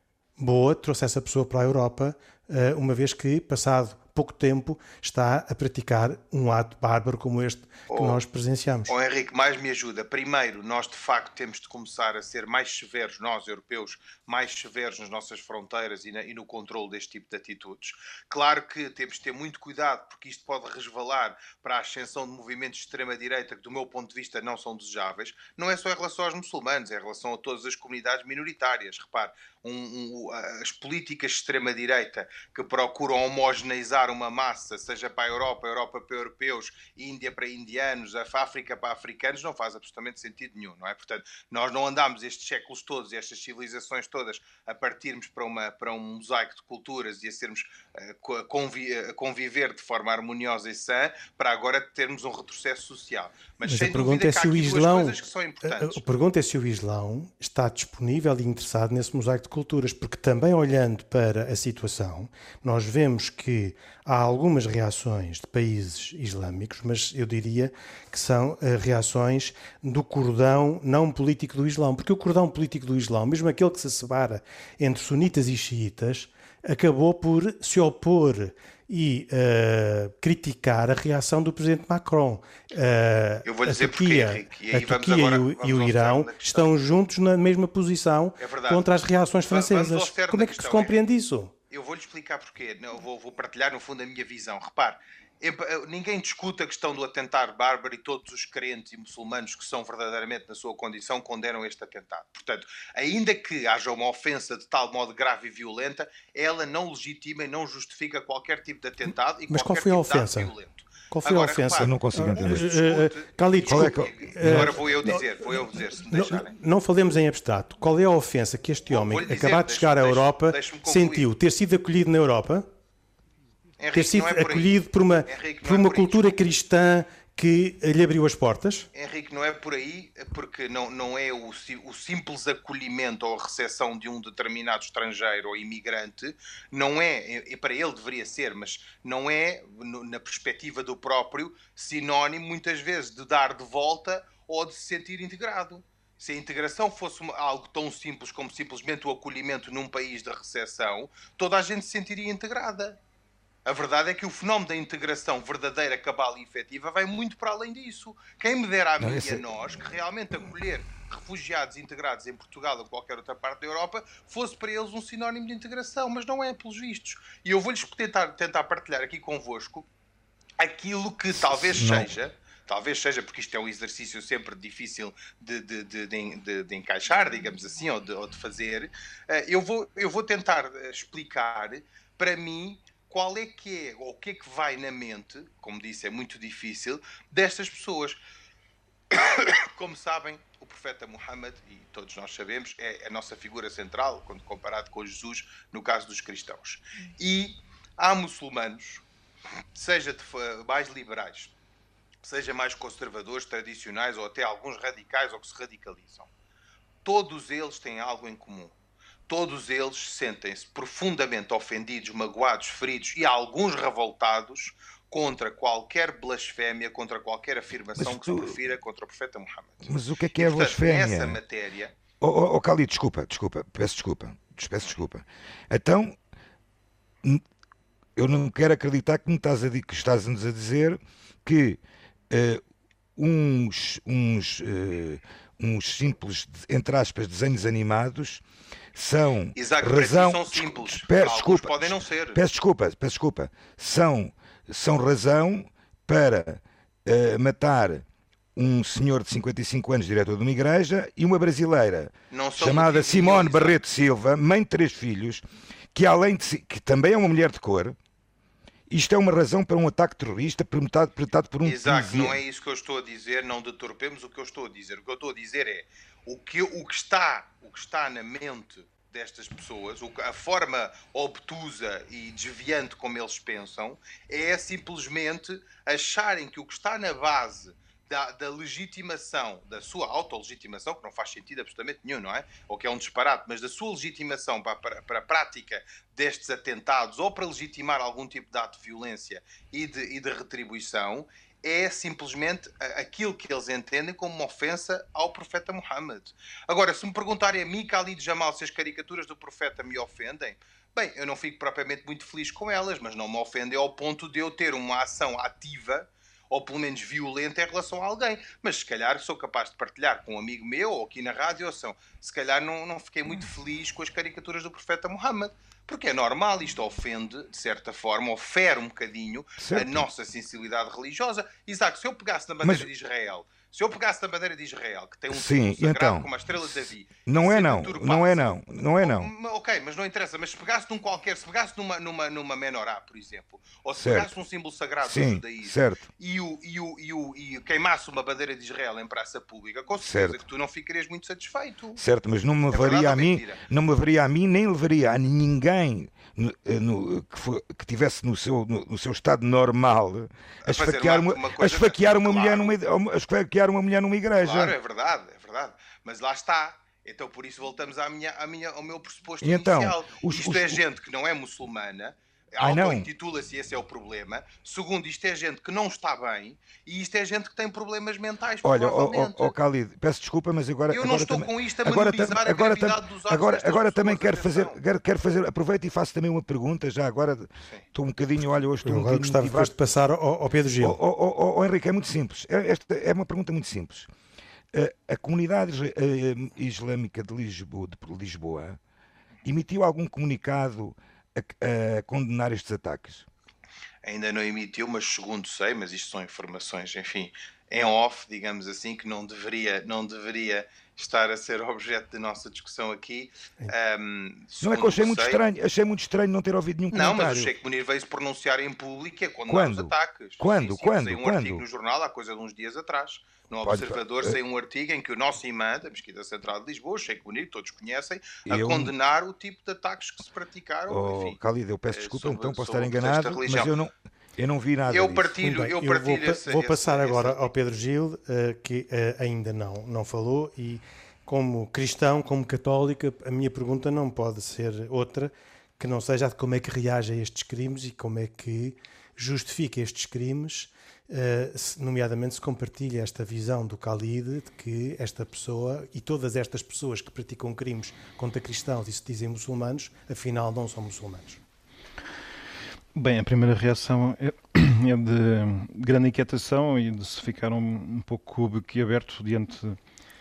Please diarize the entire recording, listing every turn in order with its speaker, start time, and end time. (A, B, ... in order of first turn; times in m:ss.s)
0:00.4-0:08.9 A
0:07.9-0:08.2 B
0:08.9-0:56.0 B
0:53.6-1:31.5 A
1:23.4-1:26.7 B
1:28.4-1:28.9 B
1:29.5-1:30.9 B
1:31.7-1:56.5 B
1:49.5-1:50.5 A
1:51.1-2:02.7 A
1:51.8-1:52.7 C
1:53.7-1:54.8 C
1:58.9-2:01.3 B
2:03.8-2:06.4 B
2:03.9-2:08.9 A
2:08.9-2:33.0 B
2:33.6-2:49.9 B
2:39.0-2:39.8 C
2:50.6-3:08.2 B
2:51.4-2:52.1 C
3:09.1-3:19.0 B
3:19.8-3:21.5 B
3:22.2-3:26.3 B
3:27.0-3:28.8 B
3:29.3-3:41.9 B
3:38.0-3:38.6 C
3:39.8-3:41.4 C
3:42.2-3:46.2 C
3:48.2-3:52.6 C
3:53.2-3:58.4 C
3:59.0-4:08.0 C
3:59.6-4:02.4 B
4:08.6-4:18.0 C
4:12.3-4:13.8 B
4:18.9-4:22.4 C
4:21.6-5:42.0 B
5:19.6-5:20.1 C
5:22.6-5:22.9 C
5:25.3-5:29.3 C
5:34.0-5:34.3 C
5:35.0-5:36.1 C
5:40.0-5:40.4 C
5:42.0-5:54.8 C
5:42.7-5:43.6 B
5:50.6-5:52.8 B
5:54.4-6:09.6 B
5:59.4-6:00.8 C
6:02.6-6:03.1 C
6:08.6-6:19.7 C
6:10.9-6:14.8 B
6:18.8-6:21.0 A
6:20.8-6:24.1 C
6:24.7-6:28.8 C
6:29.4-6:33.3 C
6:34.0-6:45.4 B
6:44.6-6:47.5 C
6:46.9-7:01.4 B
6:49.5-6:51.6 C
6:53.6-6:54.4 C
6:58.5-6:58.9 C
7:00.9-7:05.3 C
7:01.9-7:03.7 B
7:04.9-7:07.5 B
7:05.4-7:31.4 A
7:33.0-7:39.8 D